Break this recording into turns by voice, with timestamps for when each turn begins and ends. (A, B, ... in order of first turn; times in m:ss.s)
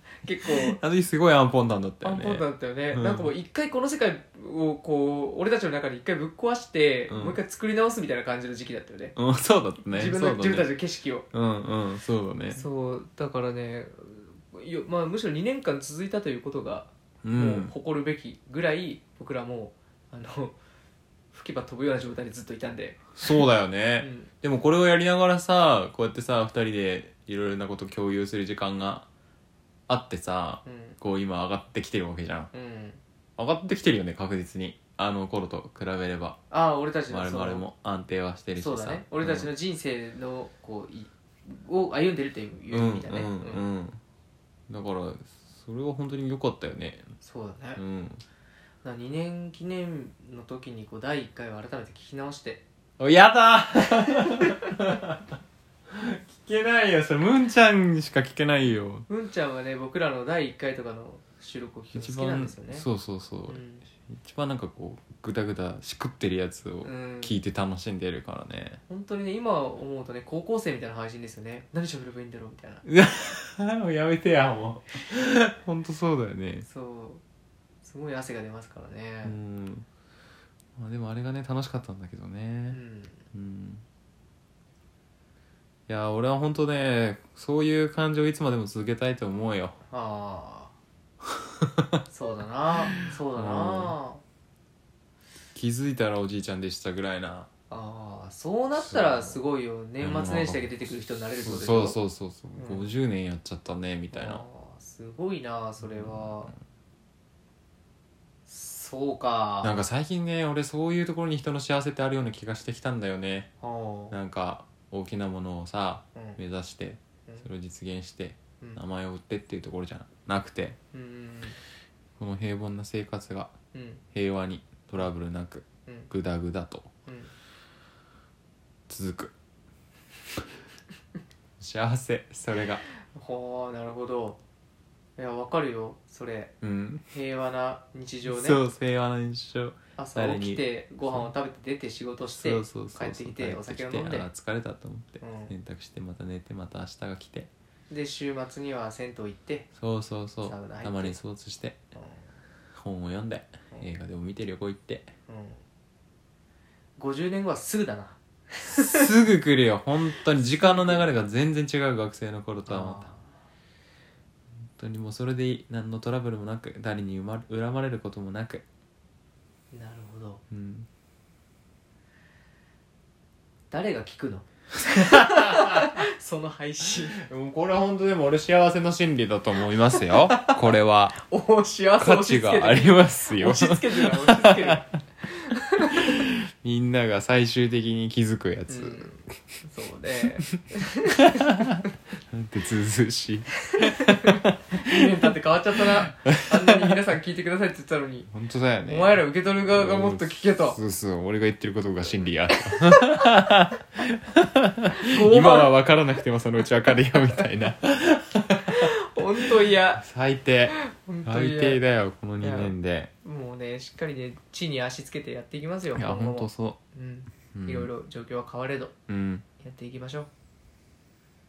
0:00.2-0:00.8 A
0:00.6-0:03.3 B
0:02.0-0:09.1 A
0:07.1-0:07.4 B
0:09.2-0:10.7 B
0:09.9-0:11.3 A
0:11.3-0:12.6 B
0:12.5-0:20.6 A
0:17.2-0:17.7 B
0:21.3-0:23.4 A
0:23.2-0:29.1 B
0:24.0-0:24.3 A
0:29.9-0:32.5 B
0:30.6-0:31.0 A
0:32.5-0:33.0 A
0:33.4-0:36.4 B
0:36.5-0:37.6 A
0:37.1-0:39.5 B
0:38.6-0:43.6 A
0:42.7-0:44.0 B
0:44.7-0:47.0 B
0:47.2-0:47.8 A
0:47.8-0:48.2 B
0:48.8-0:52.6 A
0:53.0-0:55.2 B
0:55.9-0:59.0 B
0:59.1-1:02.8 A
1:01.9-1:08.8 B
1:03.5-1:03.8 A
1:06.8-1:07.4 A
1:08.9-1:12.8 A
1:12.8-1:16.6 B
1:16.6-1:17.2 A
1:17.8-1:19.4 A
1:19.2-1:19.8 B
1:20.8-1:22.8 B
1:22.7-1:23.2 A
1:23.3-1:23.8 B
1:25.9-1:29.8 B
1:29.9-1:30.7 A
1:31.6-1:32.0 B
1:32.1-1:34.2 A
1:33.3-1:33.9 B
1:35.5-1:37.5 B
1:37.7-1:42.0 A
1:38.8-1:39.4 B
1:40.0-1:40.8 B
1:41.4-1:44.4 B
1:42.6-1:42.8 A
1:44.1-1:46.5 A
1:45.8-1:46.5 B
1:48.4-1:49.8 A
1:49.6-1:53.5 B
1:53.6-1:54.1 A
1:54.1-2:00.8 B
2:00.9-2:01.6 A
2:02.2-2:03.5 B
2:03.7-2:04.0 A
2:04.1-2:06.9 B
2:07.0-2:07.3 A
2:08.9-2:09.3 B
2:11.6-2:12.8 B
2:13.1-2:14.4 A
2:15.2-2:16.5 A
2:16.6-2:17.1 B
2:17.1-2:18.6 A
2:18.2-2:21.3 B
2:20.0-2:24.3 A
2:22.3-2:27.5 B
2:25.2-2:25.5 A
2:27.9-2:29.7 A
2:29.8-2:31.8 B
2:30.4-2:31.2 A
2:31.9-2:32.3 A
2:32.8-2:35.1 B
2:35.3-2:35.6 A
2:37.0-2:39.1 A
2:38.7-2:43.0 B
2:40.6-2:41.1 A
2:42.7-2:43.3 A
2:44.8-2:48.6 B
2:49.7-2:50.4 A
2:50.5-2:50.9 B
2:53.7-2:57.2 A
2:54.9-2:55.9 B
2:57.2-3:01.2 B
2:59.9-3:00.6 A
3:01.2-3:06.2 A
3:02.0-3:04.9 B
3:06.0-3:09.1 B
3:08.7-3:11.7 A
3:11.2-3:11.8 B
3:12.3-3:15.0 B
3:13.7-3:18.3 A
3:16.2-3:16.5 B
3:18.3-3:28.9 B
3:18.9-3:20.8 A
3:22.5-3:23.3 A
3:25.0-3:25.7 A
3:28.7-3:30.0 A
3:30.0-3:33.1 B
3:30.7-3:31.8 A
3:32.4-3:38.9 A
3:35.9-3:36.8 B
3:37.5-3:37.9 B
3:39.1-3:39.4 B
3:39.6-3:40.3 A